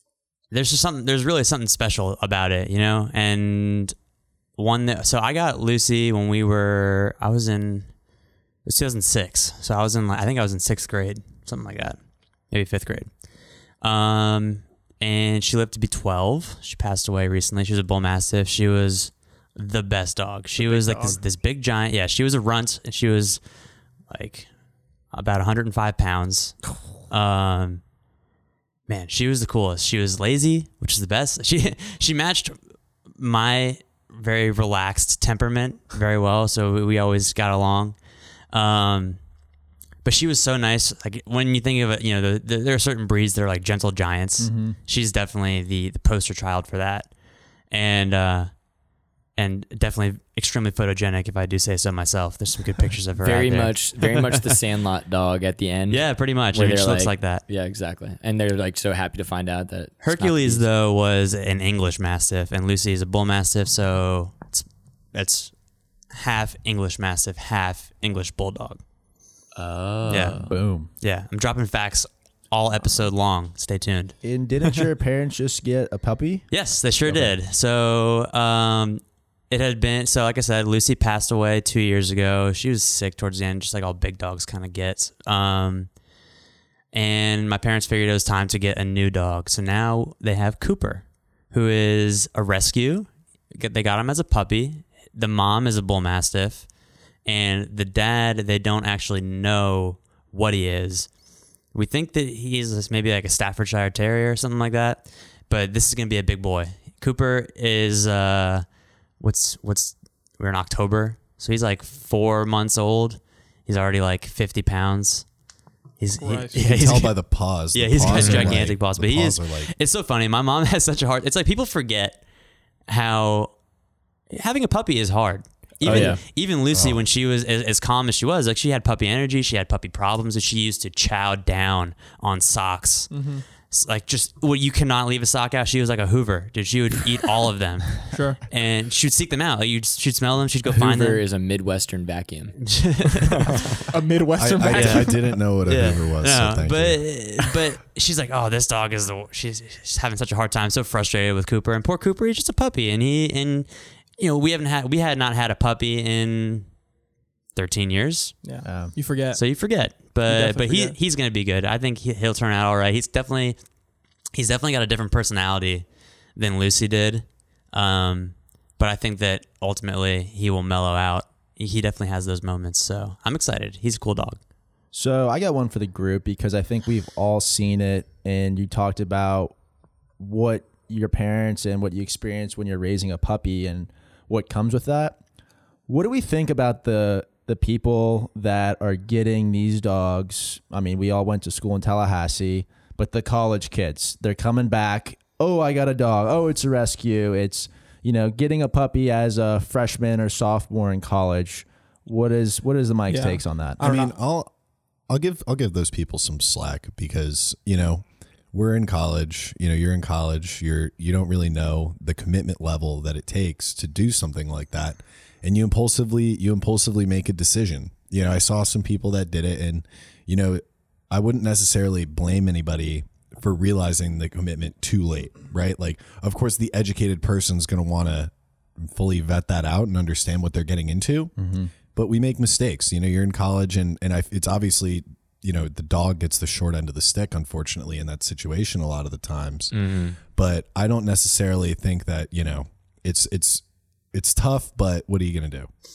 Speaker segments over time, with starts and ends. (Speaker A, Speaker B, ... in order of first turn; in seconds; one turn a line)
Speaker A: 0.5-4.0
Speaker A: 4.6-8.0
Speaker A: 8.7-13.2
Speaker A: 13.8-23.4
Speaker B: 20.6-21.2
Speaker A: 24.1-24.5
Speaker A: 25.1-27.8
Speaker A: 28.9-32.6
Speaker A: 33.1-38.0
Speaker A: 38.5-39.2
Speaker A: 40.0-47.1
Speaker C: 44.4-44.8
Speaker A: 47.7-48.6
Speaker A: 49.4-54.6
Speaker D: 53.2-60.7
Speaker A: 55.9-57.4
Speaker A: 60.0-68.8
Speaker D: 69.6-70.5
Speaker A: 70.1-74.8
Speaker C: 70.5-70.9
Speaker C: 74.2-76.5
Speaker A: 76.5-85.9
Speaker C: 77.0-77.3
Speaker A: 86.9-96.7
Speaker A: 97.2-101.1
Speaker A: 101.7-108.7
Speaker A: 109.2-115.3
Speaker A: 116.0-122.2
Speaker B: 116.2-116.6
Speaker E: 116.5-119.7
Speaker D: 118.1-118.7
Speaker A: 122.9-123.5
Speaker A: 124.3-141.2
Speaker D: 125.8-126.2
Speaker E: 126.7-127.0
Speaker B: 133.1-133.4
Speaker B: 138.1-138.4
Speaker D: 140.7-142.6
Speaker A: 142.6-143.5
Speaker D: 143.2-143.8
Speaker B: 143.5-145.4
Speaker E: 144.4-147.1
Speaker A: 144.7-145.1
Speaker A: 145.6-156.7
Speaker A: 157.6-158.5
Speaker B: 158.4-159.4
Speaker C: 158.6-158.9
Speaker A: 159.3-163.6
Speaker B: 160.3-161.0
Speaker A: 164.3-174.4
Speaker C: 174.9-179.6
Speaker C: 180.2-185.2
Speaker C: 185.9-203.8
Speaker B: 203.1-204.1
Speaker E: 203.8-204.5
Speaker E: 205.1-231.3
Speaker C: 231.4-231.7
Speaker E: 231.9-245.7
Speaker D: 239.7-240.2